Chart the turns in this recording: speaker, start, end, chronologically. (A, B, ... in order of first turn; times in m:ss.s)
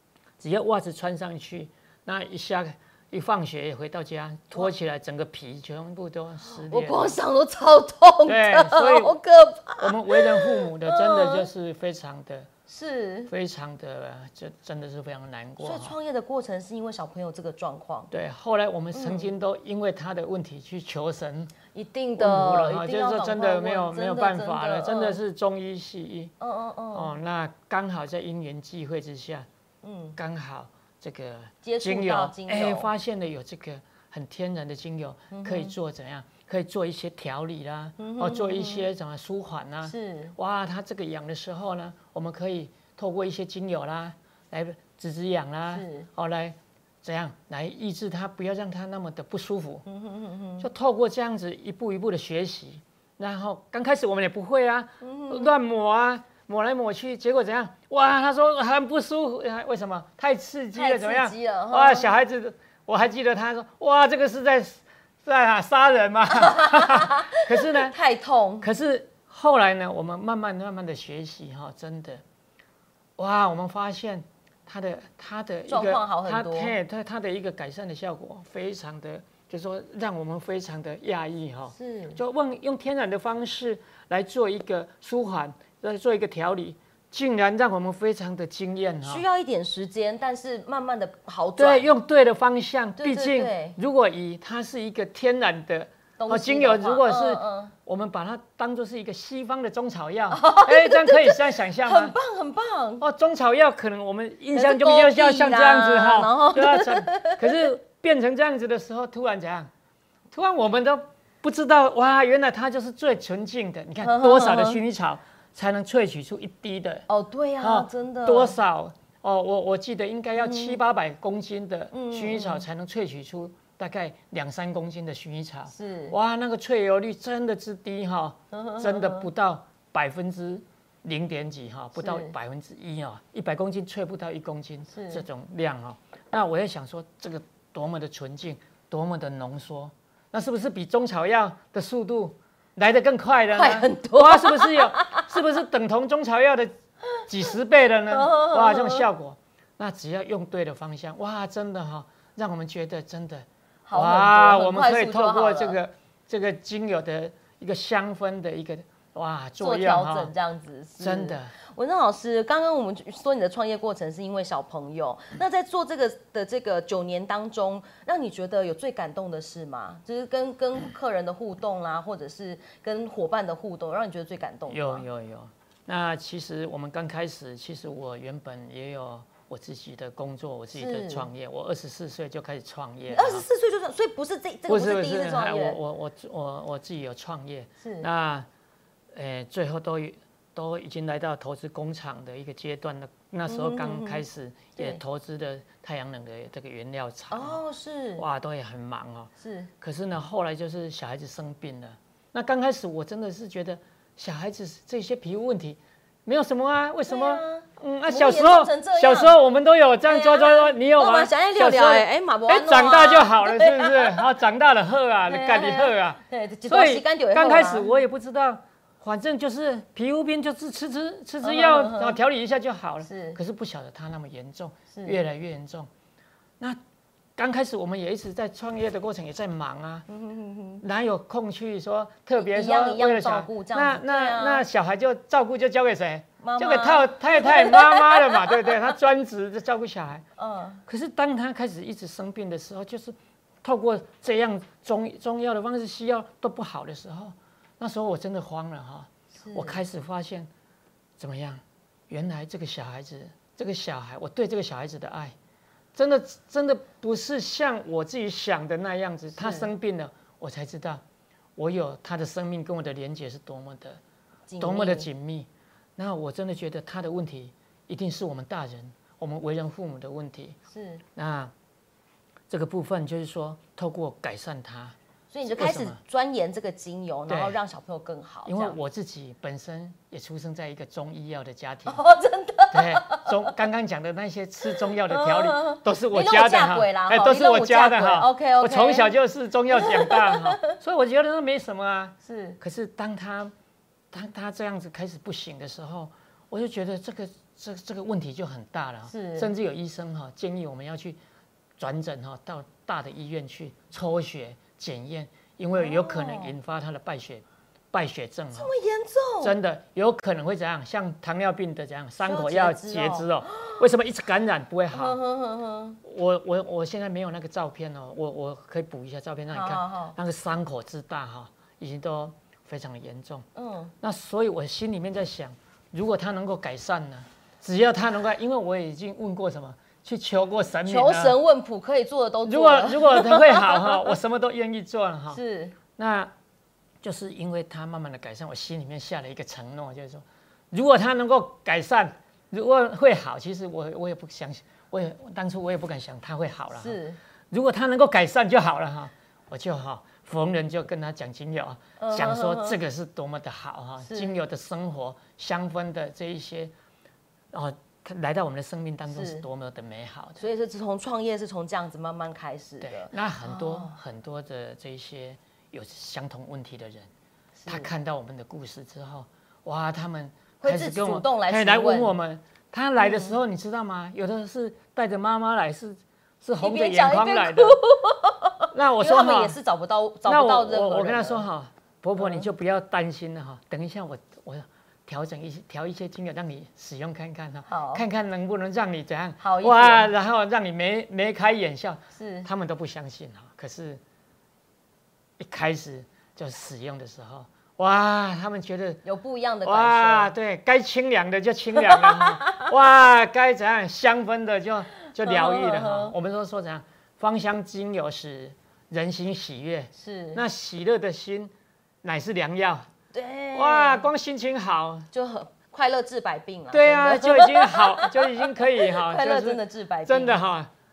0:00.4-0:07.2 A
0:06.4-0:11.5 B
0:08.2-0:09.1 A
0:09.8-0:12.5 A
0:12.7-0:13.3 B
0:13.3-0:15.9 A
0:15.6-0:18.1 B
0:18.1-0:21.5 A
0:18.9-0:19.3 B
0:21.7-0:25.2 B
0:22.2-0:26.3 A
0:26.4-0:27.1 B
0:26.9-0:29.5 A
0:29.8-0:30.2 B
0:30.2-0:49.8 A
0:31.6-0:32.9 B
0:35.3-0:35.7 B
0:38.0-0:38.9 B
0:39.8-0:40.3 B
0:45.7-0:46.1 B
0:49.8-0:50.7 B
0:50.6-1:07.9 A
0:55.0-0:55.5 B
1:00.7-1:02.1 B
1:06.3-1:08.7 B
1:08.6-1:12.2 A
1:13.2-1:29.2 A
1:15.7-1:16.8 B
1:21.7-1:22.2 B
1:29.0-1:31.9 B
1:31.6-1:42.1 A
1:33.0-1:33.8 B
1:36.2-1:37.7 B
1:40.3-1:43.0 B
1:43.0-1:49.7 A
1:44.5-1:47.7 B
1:50.3-1:57.0 A
1:54.0-1:54.8 B
1:57.1-1:58.6 B
1:57.6-2:26.7 A
2:00.4-2:00.8 B
2:01.9-2:02.6 B
2:05.7-2:06.2 B
2:08.5-2:09.3 B
2:12.0-2:12.3 B
2:14.9-2:15.2 B
2:23.5-2:25.4 B
2:27.3-2:40.3 A
2:28.1-2:29.1 B
2:33.8-2:35.8 B
2:39.6-2:55.0 B
2:41.0-2:41.5 A
2:54.7-3:03.4 A
3:00.7-3:01.3 B
3:03.1-3:05.8 B
3:04.7-3:08.5 A
3:07.8-3:08.1 B
3:09.1-3:17.6 A
3:13.5-3:14.2 B
3:17.3-3:18.2 B
3:18.2-3:45.9 A
3:19.4-3:19.7 B
3:27.1-3:29.4 B
3:30.0-3:34.2 B
3:35.3-3:37.9 B
3:41.4-3:42.2 B
3:43.0-3:43.4 B
3:44.9-3:45.2 B
3:47.4-3:50.0 A
3:50.1-3:50.8 B
3:50.8-4:00.2 A
3:52.4-3:54.6 B
3:56.4-3:58.9 B
4:00.4-4:00.8 B
4:00.9-4:10.5 A
4:09.3-4:09.8 B
4:11.2-4:15.3 A
4:15.9-4:21.0 A
4:19.4-4:19.7 B
4:21.6-4:24.0 A
4:24.5-4:25.1 B
4:24.6-4:30.6 A
4:30.7-4:31.0 B
4:31.2-4:31.5 A
4:32.5-4:36.0 A
4:35.3-4:38.8 B
4:37.3-4:37.6 A
4:38.4-4:42.0 A
4:41.9-4:43.5 B
4:42.7-4:53.5 A
4:44.7-4:49.1 B
4:49.7-4:50.8 B
4:52.2-4:52.6 B
4:54.1-5:01.2 A
4:59.1-4:59.5 B
5:01.8-5:08.7 A
5:05.7-5:06.5 B
5:08.5-5:09.5 B
5:09.4-5:15.2 A
5:12.2-5:13.8 B
5:14.9-5:16.0 B
5:16.0-5:23.4 A
5:19.5-5:20.2 B
5:23.5-5:23.9 B
5:24.0-5:31.4 A
5:30.8-5:34.0 B
5:32.4-5:35.4 A
5:35.3-5:35.8 B
5:36.0-5:36.3 A
5:37.0-5:47.0 A
5:46.8-5:47.2 B
5:47.5-5:56.7 A
5:52.0-5:52.8 B
5:54.0-5:54.4 B
5:57.5-6:00.4 A
5:59.1-5:59.4 B
6:00.4-6:04.0 B
6:02.8-6:07.1 A
6:07.6-6:07.9 B
6:07.7-6:17.8 A
6:10.6-6:12.1 B
6:13.0-6:13.4 B
6:16.6-6:21.4 B
6:18.7-6:19.6 A
6:20.2-6:34.0 A
6:22.2-6:22.4 B
6:27.7-6:28.0 B
6:29.4-6:30.1 B
6:32.1-6:32.5 B
6:35.4-6:39.0 A
6:39.0-6:40.3 B
6:39.6-6:51.5 A
6:41.8-6:42.7 B
6:45.0-6:46.1 B
6:50.0-6:50.4 B
6:52.0-6:52.9 A
6:53.1-6:54.1 B
6:53.5-6:55.1 A
6:55.1-7:00.4 B
6:56.7-7:00.7 A